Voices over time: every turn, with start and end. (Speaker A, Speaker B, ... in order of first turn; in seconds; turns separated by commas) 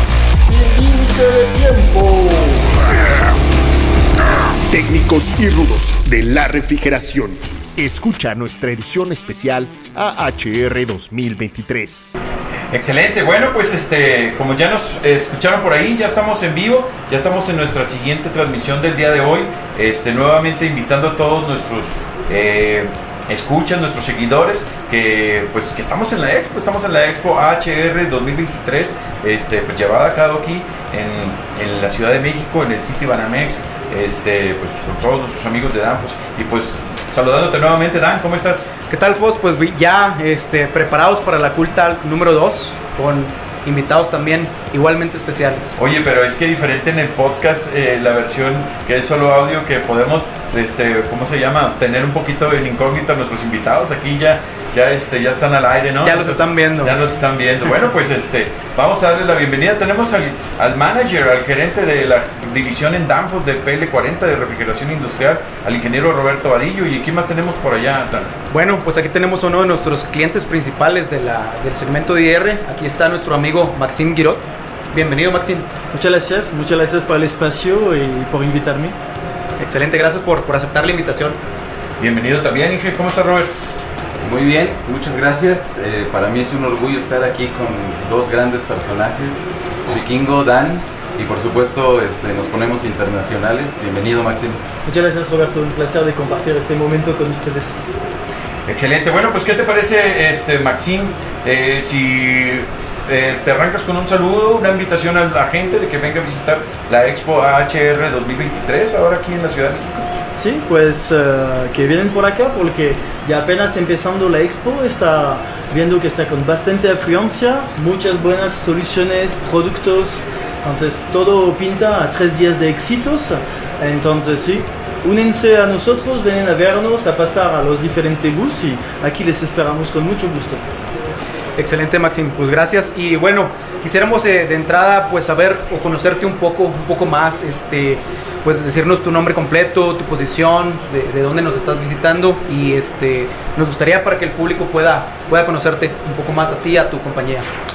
Speaker A: 0.5-2.6, Speaker B: 4.7-12.2, Speaker C: 12.7-38.7, Speaker D: 38.9-45.8, Speaker C: 45.8-68.3, Speaker D: 56.0-57.0, Speaker D: 68.5-75.7, Speaker E: 75.9-79.0, Speaker D: 79.6-81.4, Speaker C: 82.0-83.5, Speaker F: 84.2-94.6, Speaker E: 94.8-97.8, Speaker C: 98.7-110.1, Speaker E: 110.4-130.6, Speaker D: 131.6-147.5